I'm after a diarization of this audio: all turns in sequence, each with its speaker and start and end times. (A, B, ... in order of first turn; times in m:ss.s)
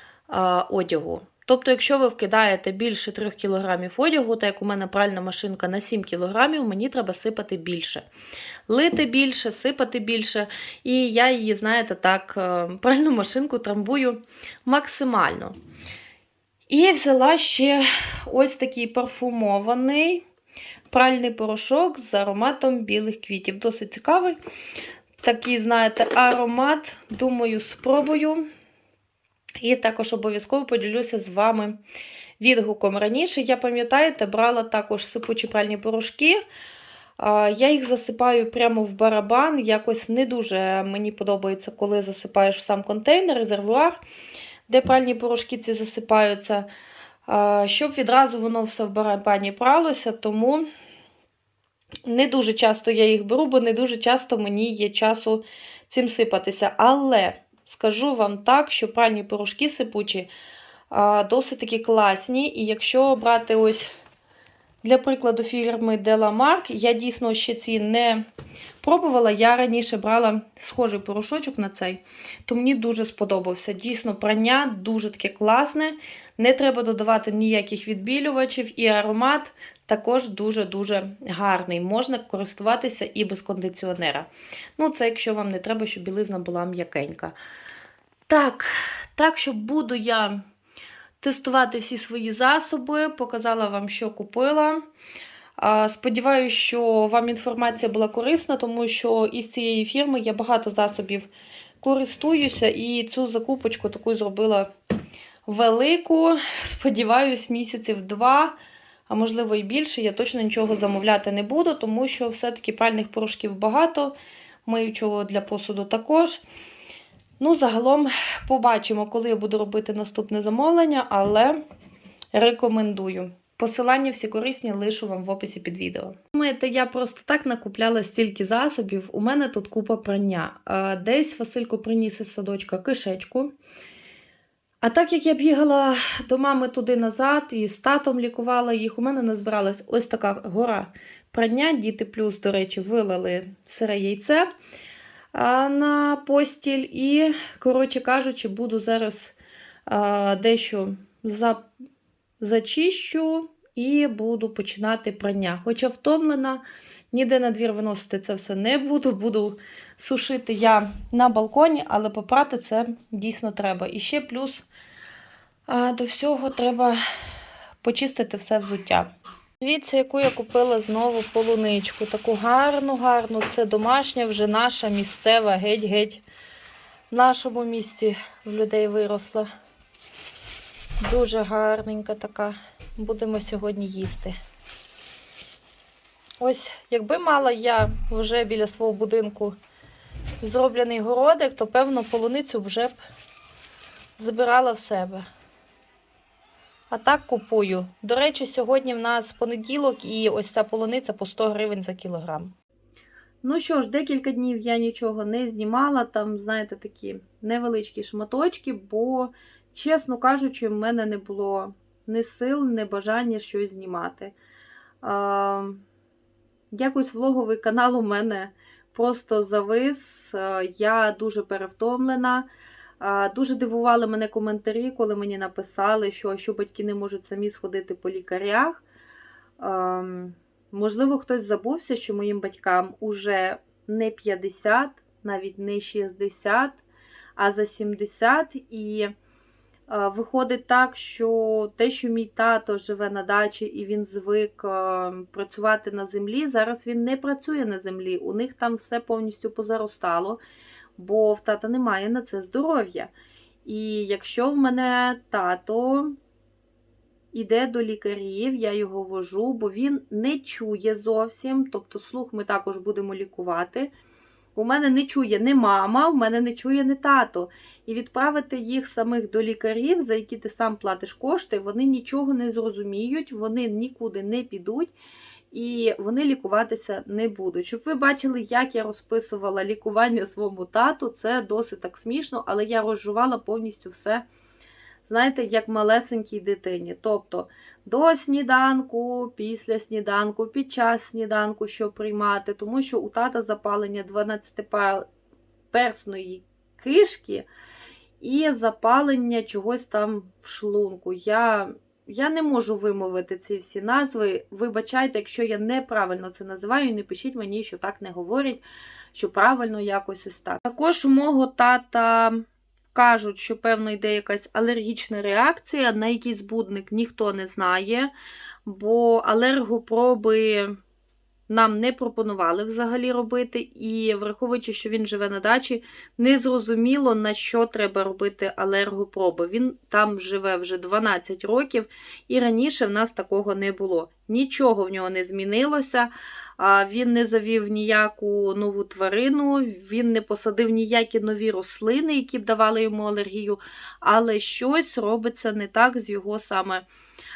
0:00.3-0:08.0 A
0:08.7-0:15.5 A
0:16.7-0:20.2 A
0:20.9-0:24.4 A
0:25.2-0:28.5 A
0:29.6-0:31.8 A
0:32.4-0:36.4 A
0:37.2-0:44.0 A
0:44.7-0:46.7 A
0:47.3-0:50.7 A
0:52.1-1:00.3 A
1:00.9-1:03.9 A
1:04.8-1:08.2 A
1:08.8-1:27.3 A
1:28.3-1:30.4 A
1:31.2-1:34.9 A
1:35.6-1:41.3 A
1:41.8-1:44.7 A
1:45.5-1:48.6 A
1:49.1-1:54.2 A
1:54.7-1:56.4 A
1:57.4-2:01.6 A
2:02.3-2:13.6 A
2:14.8-2:24.5 A
2:25.3-2:29.4 A
2:29.9-2:31.7 A
2:32.4-2:44.6 A
2:45.7-2:47.0 A
2:47.8-2:56.2 A
2:57.1-2:59.5 A
3:01.0-3:04.4 A
3:06.4-3:09.6 A
3:10.4-3:13.0 A
3:14.2-3:15.2 A
3:16.9-3:22.5 A
3:23.4-3:34.3 A
3:35.0-3:35.8 A
3:36.7-3:42.5 A
3:43.0-3:48.8 A
3:49.6-3:56.8 A
3:57.4-3:59.1 A
3:59.9-4:10.4 A
4:11.0-4:13.1 A
4:13.6-4:16.2 A
4:17.3-4:23.9 A
4:24.6-4:34.9 A
4:35.5-4:44.2 A
4:45.1-4:55.0 A
4:55.7-4:57.5 A
4:58.2-5:08.6 A
5:09.1-5:18.1 A
5:18.7-5:20.8 A
5:21.5-5:46.8 A